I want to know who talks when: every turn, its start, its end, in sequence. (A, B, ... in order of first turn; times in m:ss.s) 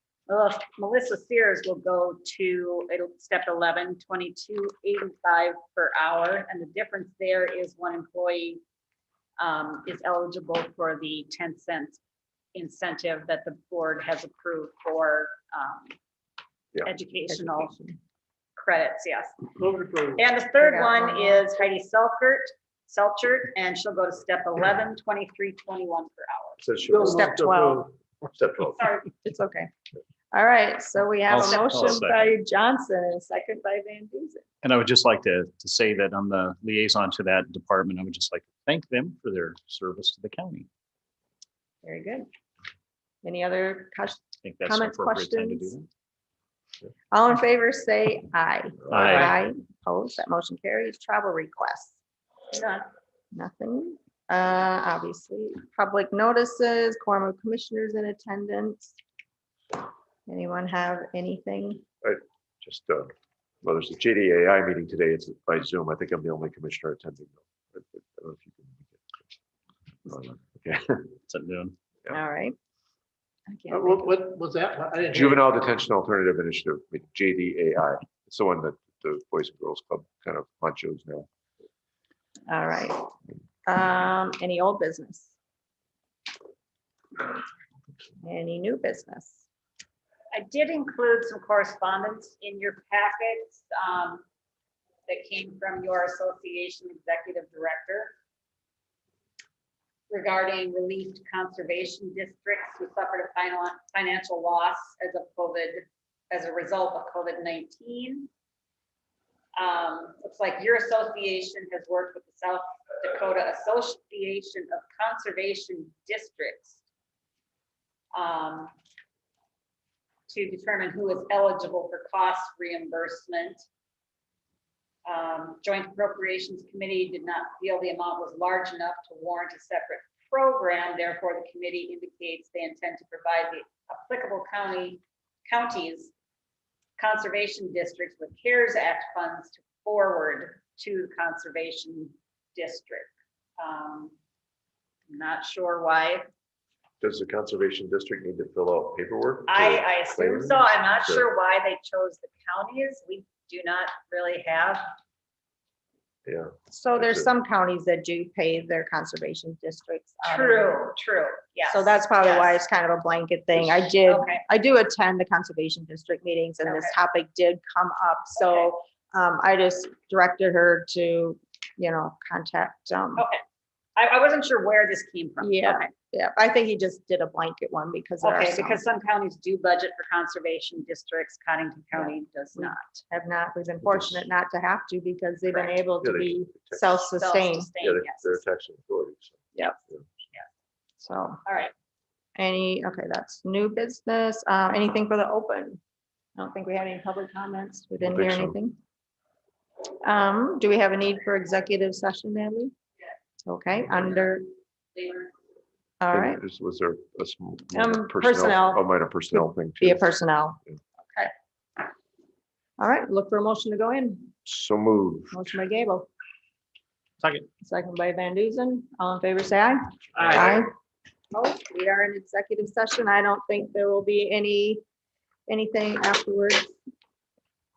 0:00.3-0:08.6 A
0:09.4-0:12.0 A
0:12.6-0:15.9 A
0:16.8-0:17.7 A
0:17.3-0:18.0 B
0:18.6-0:19.4 A
0:19.6-0:20.2 C
0:20.2-0:26.6 A
0:20.6-0:21.5 B
0:26.6-0:27.4 D
0:26.9-0:27.8 C
0:27.1-0:27.9 B
0:28.2-0:28.9 D
0:28.8-0:29.1 A
0:29.2-0:29.7 B
0:30.3-0:34.4 B
0:31.3-0:32.3 E
0:31.5-0:32.0 A
0:34.6-0:40.7 E
0:41.8-0:42.3 B
0:43.2-0:45.8 B
0:44.4-0:45.9 E
0:47.1-0:52.0 B
0:48.9-0:49.4 E
0:52.5-0:52.9 A
0:53.3-0:58.9 B
1:00.3-1:01.8 B
1:02.0-1:09.1 D
1:10.1-1:11.1 D
1:11.3-1:11.8 E
1:12.1-1:12.6 B
1:13.5-1:14.1 B
1:13.7-1:15.4 C
1:15.1-1:21.3 D
1:22.5-1:23.1 B
1:23.7-1:25.3 B
1:28.2-1:29.4 B
1:30.3-1:34.2 A
1:35.1-1:38.2 A
1:40.1-1:48.3 A
1:49.6-1:56.8 A
1:58.1-1:58.7 A
2:00.3-2:03.7 A
2:05.1-2:16.1 A
2:17.0-2:24.2 A
2:25.1-2:26.3 A
2:27.0-2:31.3 D
2:29.5-2:34.9 A
2:36.3-2:37.3 D
2:36.7-2:40.9 B
2:40.2-2:42.6 A
2:41.7-2:53.2 B
2:43.7-2:44.4 A
2:46.7-2:47.0 A
2:48.4-2:48.7 A
2:53.2-2:53.4 A
2:54.0-2:55.9 A
2:55.4-2:58.8 B
2:58.2-3:03.0 A
3:02.0-3:07.7 B
3:06.0-3:07.0 D
3:07.1-3:08.4 A
3:07.8-3:10.1 D
3:09.6-3:09.8 B
3:11.0-3:11.4 B
3:11.5-3:11.7 A
3:12.4-3:15.8 B
3:16.4-3:18.8 B
3:18.0-3:18.6 D
3:20.0-3:22.7 B
3:23.4-3:24.5 B
3:26.0-3:26.4 B
3:26.1-3:30.1 D
3:27.7-3:30.6 B
3:32.8-3:34.4 B
3:34.4-3:35.6 D
3:35.3-3:36.1 B
3:37.2-3:37.5 E
3:37.6-3:40.7 B
3:40.2-3:40.6 E
3:41.3-3:44.8 B
3:45.5-3:46.8 B